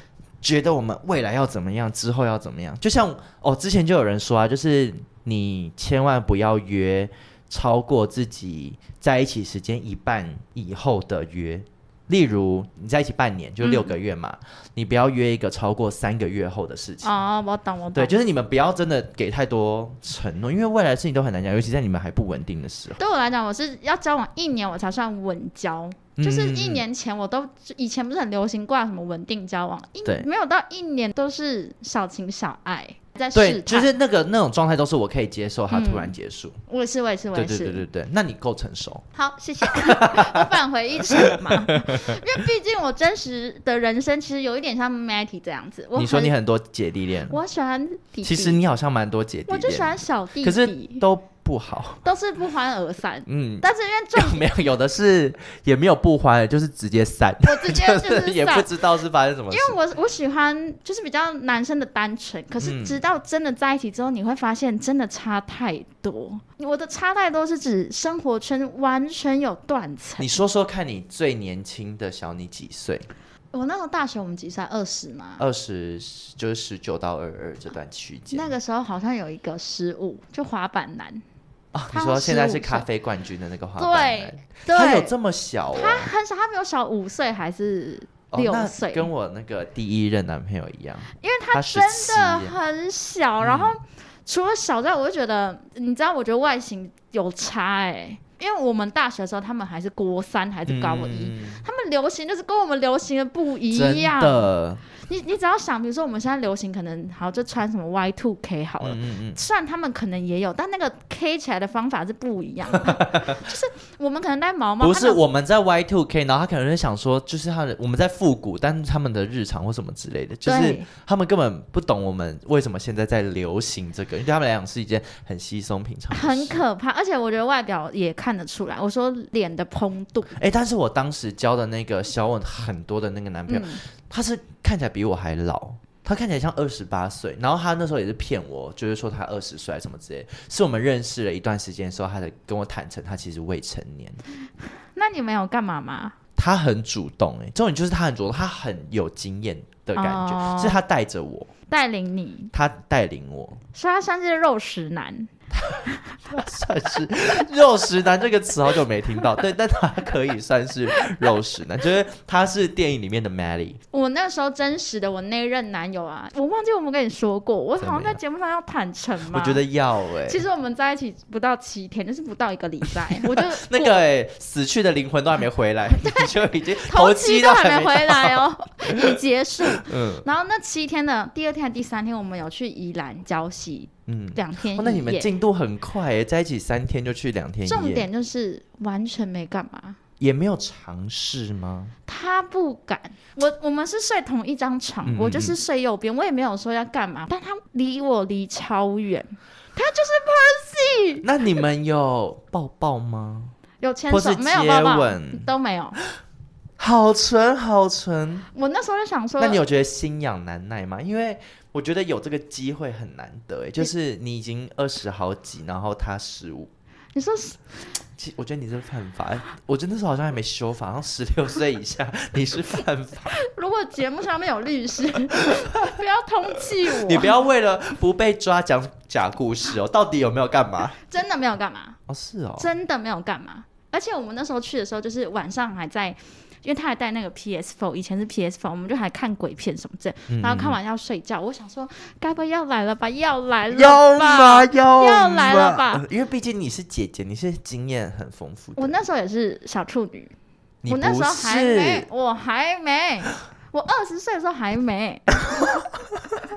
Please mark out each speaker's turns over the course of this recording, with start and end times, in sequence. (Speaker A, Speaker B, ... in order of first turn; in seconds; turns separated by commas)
Speaker A: 0.4-17.2, Speaker B: 13.6-13.9, Speaker B: 17.0-18.2, Speaker A: 17.9-23.0, Speaker B: 23.0-33.9, Speaker A: 26.2-26.8, Speaker A: 33.3-36.6, Speaker B: 35.7-36.1, Speaker B: 36.7-37.8, Speaker A: 37.3-39.0, Speaker B: 39.1-46.3, Speaker A: 39.6-40.5, Speaker A: 41.1-42.2, Speaker A: 46.0-47.4, Speaker B: 47.3-48.6, Speaker A: 48.2-52.0, Speaker B: 49.5-51.0, Speaker B: 52.0-54.4, Speaker A: 53.3-59.8, Speaker B: 57.4-58.7, Speaker B: 59.5-70.4, Speaker A: 62.6-63.0, Speaker A: 70.2-73.1, Speaker B: 73.5-75.4, Speaker A: 75.4-78.5, Speaker B: 78.3-81.2, Speaker A: 81.7-86.1, Speaker B: 81.9-82.8, Speaker B: 83.8-85.1, Speaker B: 85.7-89.1, Speaker A: 88.3-92.5, Speaker B: 91.2-115.2, Speaker A: 93.4-93.8, Speaker A: 100.7-101.6, Speaker A: 103.7-104.8, Speaker A: 108.8-109.4, Speaker A: 112.8-113.4, Speaker A: 114.8-126.6, Speaker B: 120.4-120.9, Speaker B: 126.1-130.3, Speaker A: 130.3-144.2, Speaker B: 133.5-133.8, Speaker B: 144.9-146.1, Speaker A: 146.3-151.5, Speaker B: 149.9-150.8, Speaker B: 151.7-152.5, Speaker A: 152.5-153.6, Speaker B: 153.7-155.3, Speaker A: 155.5-163.8, Speaker B: 155.8-156.2, Speaker B: 163.9-169.6, Speaker A: 167.8-168.2, Speaker A: 169.3-170.4, Speaker B: 170.2-174.0, Speaker A: 173.1-179.1, Speaker B: 176.0-185.3, Speaker A: 179.7-180.2, Speaker A: 184.1-188.1, Speaker B: 187.7-190.0, Speaker A: 190.2-191.9, Speaker B: 192.1-201.2, Speaker A: 195.0-195.6, Speaker A: 201.2-203.5, Speaker B: 203.8-206.0, Speaker A: 204.1-205.5, Speaker A: 206.8-208.5, Speaker B: 208.5-209.6, Speaker A: 209.4-216.7, Speaker B: 217.1-217.6, Speaker A: 218.2-223.3, Speaker B: 223.3-227.4, Speaker A: 225.6-226.0, Speaker A: 226.8-231.0, Speaker B: 231.0-232.0, Speaker A: 232.1-232.7, Speaker B: 232.6-246.1, Speaker A: 240.3-240.8, Speaker A: 243.7-248.9, Speaker B: 248.8-250.3, Speaker A: 250.8-252.1, Speaker B: 250.9-255.7, Speaker A: 255.4-256.4